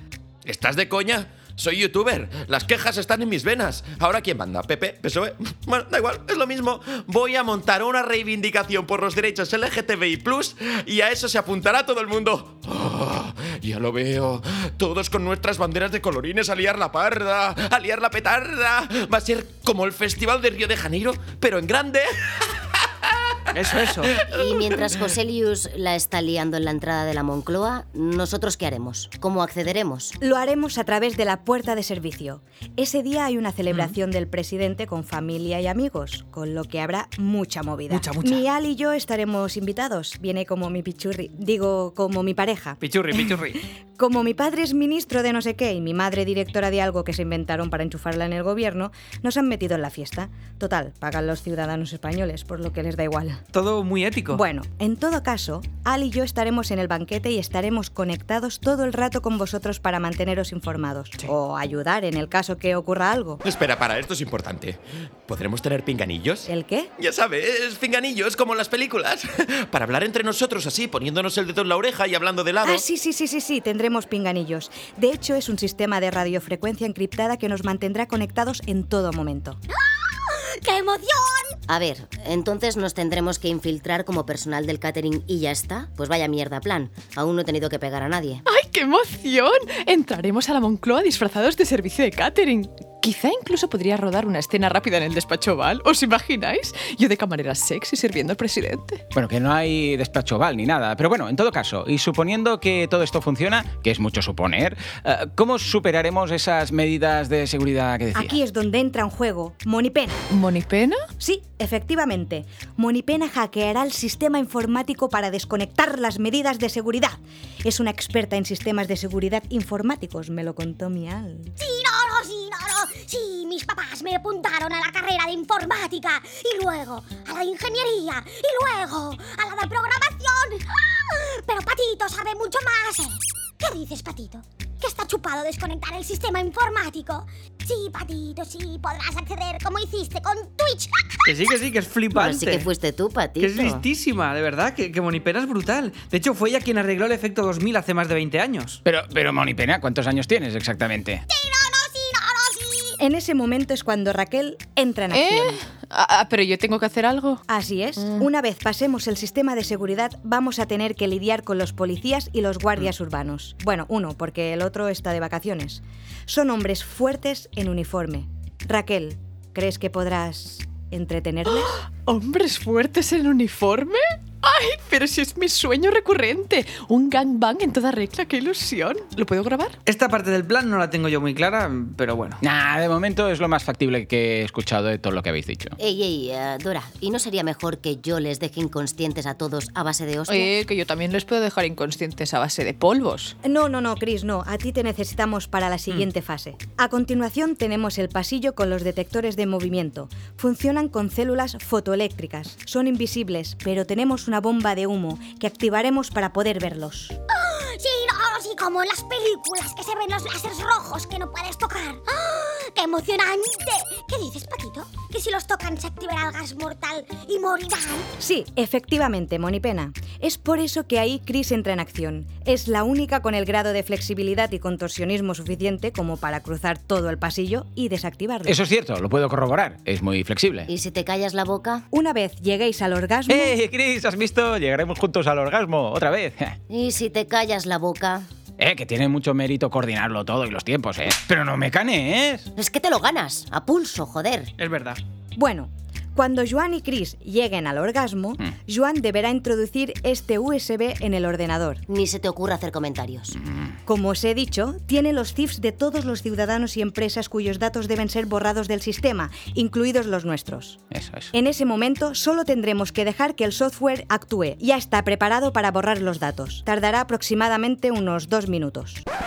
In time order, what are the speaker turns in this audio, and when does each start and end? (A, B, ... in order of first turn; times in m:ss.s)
0:00.4-0:23.1 A
0:23.5-0:24.2 B
0:23.8-0:25.1 A
0:24.2-0:30.2 C
0:30.2-0:43.3 D
0:37.9-0:38.4 B
0:42.8-0:43.6 B
0:44.0-0:53.4 D
0:53.5-0:54.4 B
0:54.3-1:03.4 D
1:03.4-1:12.8 A
1:06.5-1:06.9 D
1:12.6-1:19.6 D
1:19.8-1:21.6 E
1:21.7-1:28.4 C
1:28.4-1:39.0 F
1:39.1-1:48.4 G
1:48.1-1:50.2 D
1:50.3-1:51.1 F
1:51.2-2:01.5 D
2:01.6-2:21.4 E
2:21.2-2:22.7 B
2:22.1-2:23.8 C
2:23.4-2:28.8 B
2:28.8-2:31.2 G
2:31.3-2:33.0 E
2:33.0-2:35.6 D
2:35.1-2:37.4 F
2:37.5-2:51.8 D
2:38.0-2:38.3 F
2:51.5-2:59.8 F
2:59.8-3:02.4 B
3:02.4-3:05.8 G
3:05.8-3:10.5 C
3:10.3-3:13.4 F
3:13.4-3:27.2 D
3:27.3-3:38.1 E
3:38.2-3:48.6 D
3:48.4-3:50.7 G
3:50.7-3:51.8 C
3:51.9-3:53.6 D
3:53.3-3:56.6 G
3:56.7-3:58.3 C
3:58.6-4:02.5 G
4:02.6-4:04.5 C
4:04.6-4:05.0 B
4:05.4-4:11.8 D
4:11.9-4:13.4 C
4:13.3-4:13.7 G
4:13.8-4:20.8 D
4:20.9-4:21.3 G
4:21.3-4:29.0 D